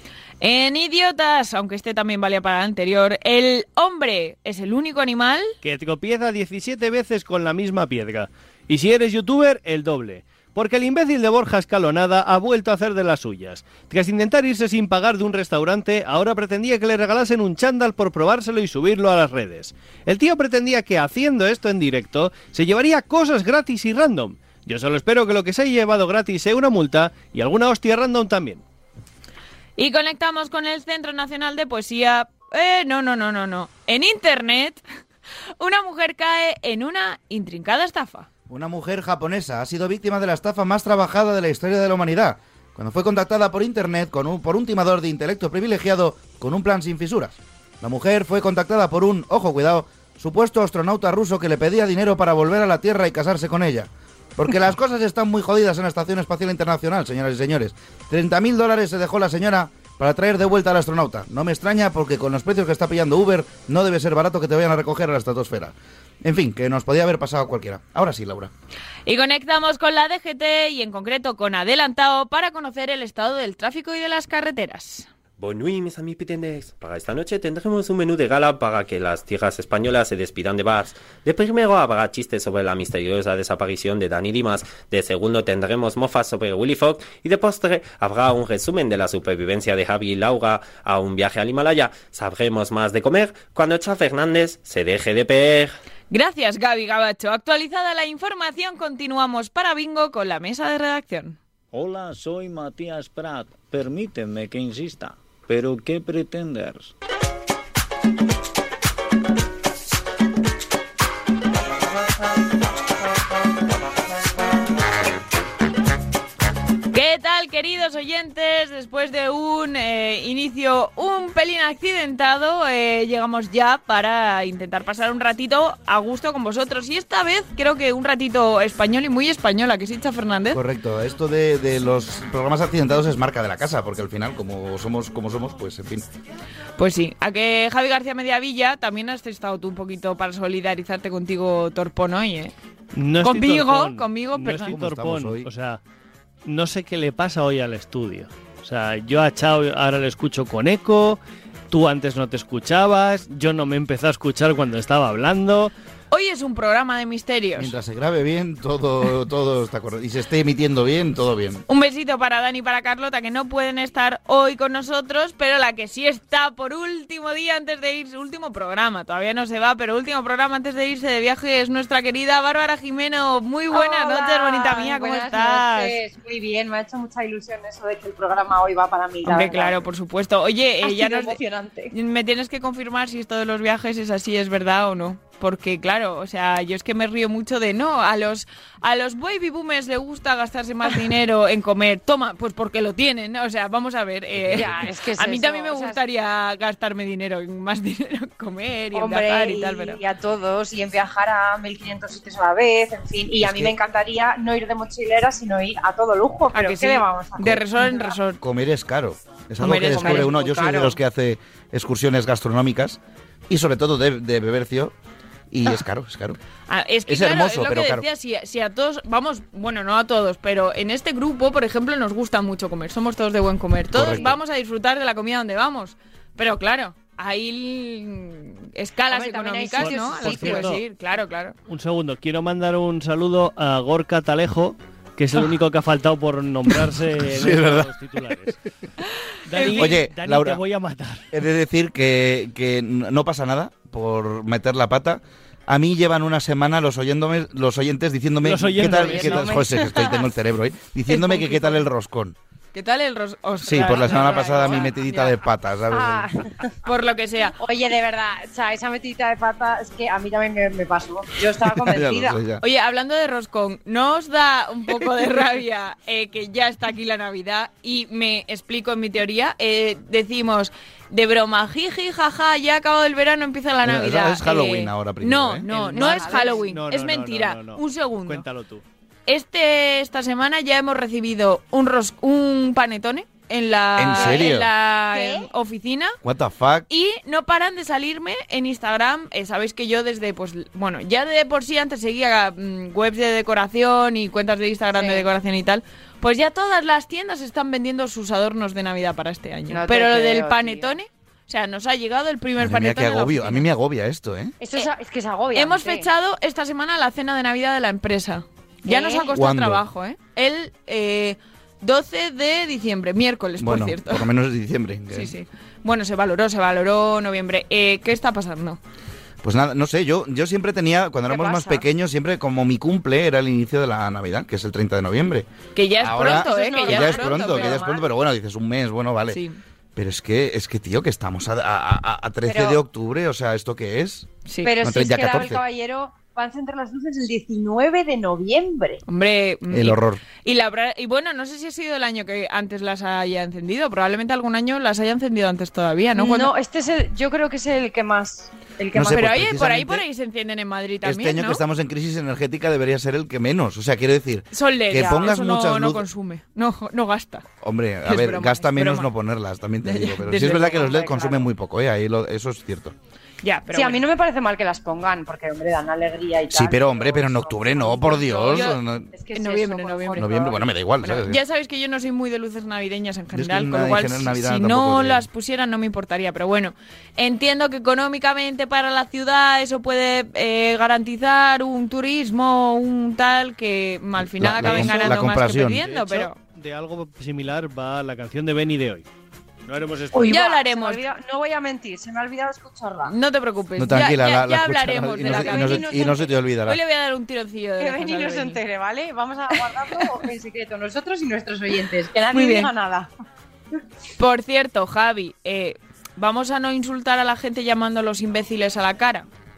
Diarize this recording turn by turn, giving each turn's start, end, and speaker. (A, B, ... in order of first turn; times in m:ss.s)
0:00.4-0:05.5 A
0:05.6-0:28.6 B
0:29.8-0:34.8 A
0:35.6-0:38.3 A
0:38.5-1:08.5 C
1:09.1-1:15.1 A
1:15.4-1:35.7 D
1:36.1-1:41.4 A
1:41.7-1:46.9 E
1:56.9-2:10.6 A
2:10.5-2:16.1 C
2:16.8-2:22.5 A
2:23.0-2:25.8 B
2:23.2-2:24.8 A
2:24.6-2:25.5 C
2:26.4-2:31.2 B
2:31.7-2:35.7 B
2:36.1-2:37.7 A
2:37.6-2:41.6 C
2:41.7-2:56.0 A
2:53.7-2:59.8 F
2:59.2-3:01.4 A
3:00.8-3:01.9 F
3:01.9-3:20.0 A
3:14.5-3:16.0 F
3:18.9-3:28.2 F
3:23.4-3:23.7 C
3:26.5-3:28.4 A
3:28.4-3:33.0 C
3:29.6-3:30.8 A
3:29.9-3:31.0 F
3:33.5-3:34.9 C
3:35.5-3:36.4 C
3:36.7-3:51.6 A
3:37.1-3:38.0 C
3:43.9-3:44.3 C
3:49.1-3:50.8 F
3:49.8-3:50.8 B
3:51.7-3:58.6 B
3:57.4-3:57.9 C
3:59.5-4:01.3 B
3:59.6-3:59.9 A
3:59.7-4:00.6 C
4:01.3-4:12.4 C
4:08.4-4:09.6 B
4:09.0-4:09.8 F
4:10.0-4:10.2 A
4:11.1-4:11.9 A
4:12.7-4:15.4 A
4:13.6-4:16.3 C
4:15.9-4:16.7 F
4:16.8-4:17.6 A
4:17.5-4:22.4 F
4:21.9-4:22.6 C
4:22.6-4:38.4 A
4:33.8-4:35.7 C
4:35.7-4:36.7 F
4:36.0-4:38.8 B
4:39.3-4:46.2 A
4:44.0-4:44.7 C
4:44.2-4:44.5 F
4:45.1-4:45.5 F
4:46.2-4:46.9 C
4:46.9-5:03.7 A
4:55.0-4:55.3 F
4:59.7-5:01.0 F
5:02.6-5:04.5 C
5:04.6-5:06.1 F
5:05.5-5:14.3 A
5:08.8-5:09.3 F
5:09.3-5:09.8 C
5:13.6-5:15.3 C
5:15.1-5:18.8 A
5:19.4-5:25.5 C
5:21.3-5:21.8 A
5:25.8-5:27.9 A
5:26.0-5:29.4 C
5:26.1-5:28.1 F
5:29.3-5:29.6 A
5:30.0-5:34.3 C
5:32.5-5:32.8 F
5:34.5-5:34.7 A
5:34.6-5:39.0 F
5:34.8-5:35.6 C
5:39.1-5:46.5 A
5:39.7-5:40.2 C
5:46.2-5:49.2 F
5:48.9-5:50.0 C
5:49.1-5:51.6 A
5:51.0-5:56.0 C
5:54.5-5:57.4 A
5:57.6-6:03.0 C
5:58.0-5:59.1 A
5:59.8-6:01.3 A
6:01.0-6:01.5 F
6:03.4-6:04.0 A
6:03.7-6:10.7 F
6:06.5-6:09.1 C
6:08.5-6:08.8 A
6:09.3-6:10.4 A
6:10.2-6:11.4 C
6:11.0-6:26.4 A
6:13.3-6:15.2 C
6:24.3-6:25.8 C
6:24.4-6:29.1 B
6:29.7-6:30.4 B
6:30.1-6:33.1 F
6:30.3-6:31.0 A
6:33.0-6:38.6 A
6:33.8-6:36.8 C
6:35.2-6:36.4 F
6:37.8-6:43.1 F
6:42.3-6:42.7 A
6:44.2-6:49.3 A